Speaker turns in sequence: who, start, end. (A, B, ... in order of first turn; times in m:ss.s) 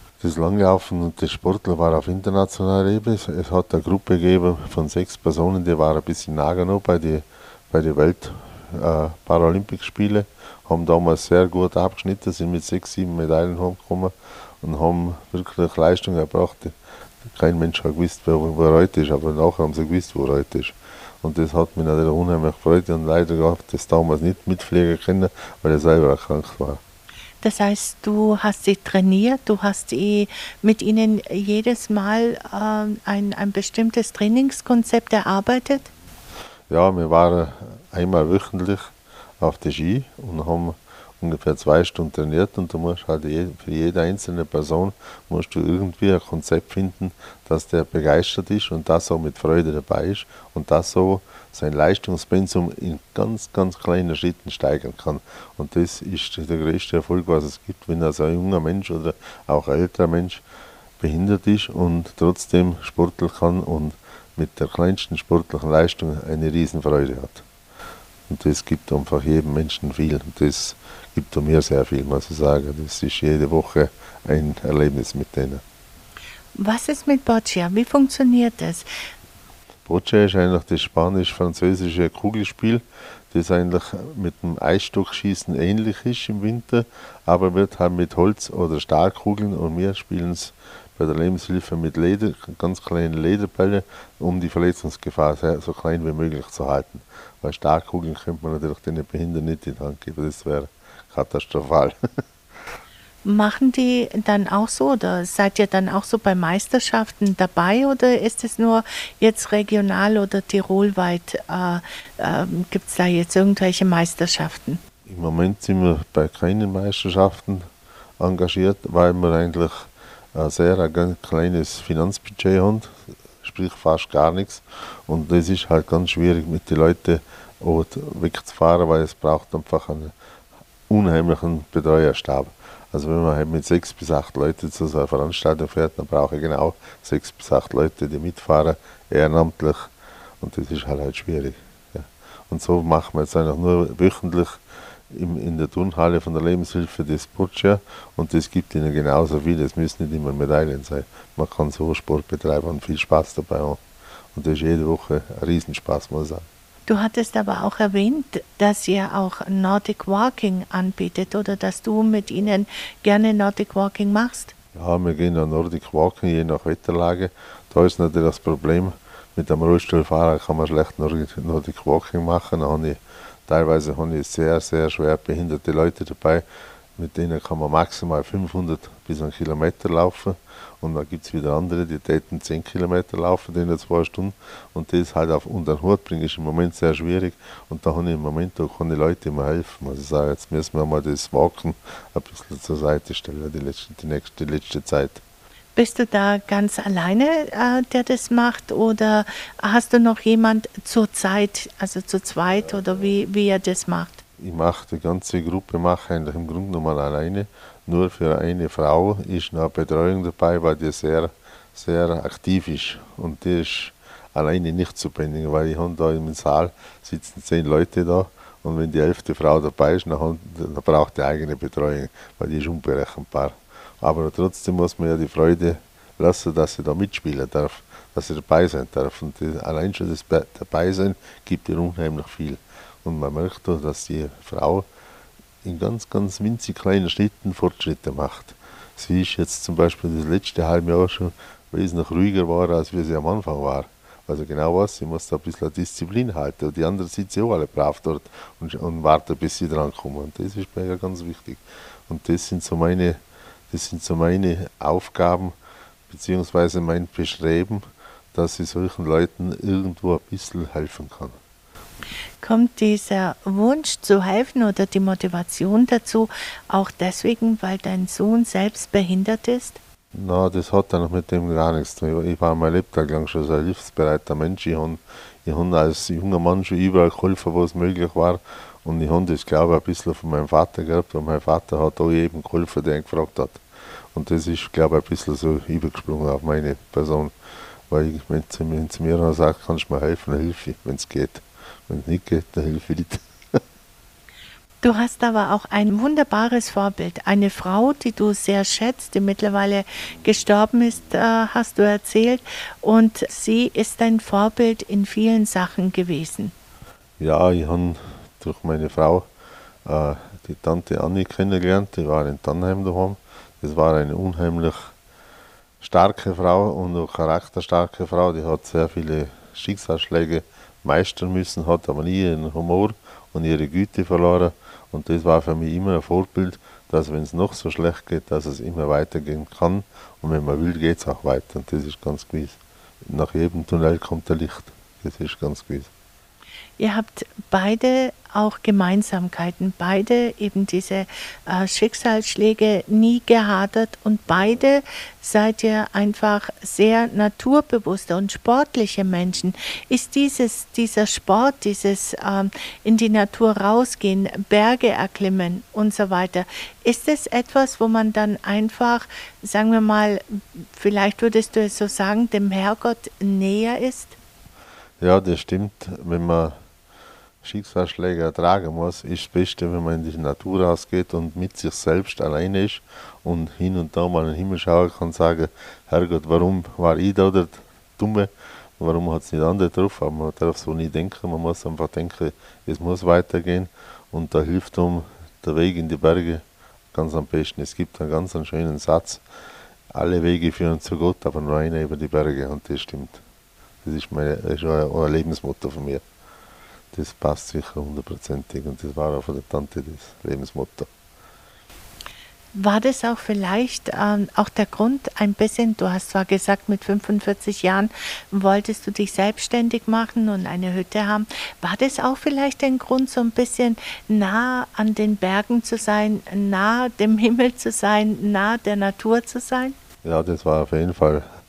0:00.2-0:26.8 A
0:27.4-0:35.9 B
0:36.7-1:00.4 A
1:01.0-1:07.4 A
1:08.3-1:15.6 A
1:16.6-1:18.9 B
1:19.8-1:42.0 A
1:43.2-1:54.8 B
1:55.0-2:10.1 A
2:10.9-2:33.8 A
2:34.3-2:36.5 A
2:36.9-2:44.5 B
2:44.7-2:56.4 A
2:57.0-3:15.2 A
3:15.8-3:24.2 B
3:24.4-3:54.9 A
3:55.6-4:13.2 A
4:13.7-4:15.5 A
4:16.1-4:21.4 A
4:22.4-4:29.8 B
4:30.1-4:43.6 A
4:44.1-4:47.3 A
4:47.9-4:53.6 A
4:54.8-5:06.5 B
5:07.2-5:09.3 A
5:09.8-5:14.9 A
5:15.8-5:35.9 A
5:36.8-6:04.2 B
6:05.0-6:06.6 A
6:07.4-6:29.2 A
6:29.9-6:33.2 A
6:33.8-6:36.0 A
6:36.9-6:40.9 A
6:42.6-6:59.8 B
7:00.0-7:01.3 A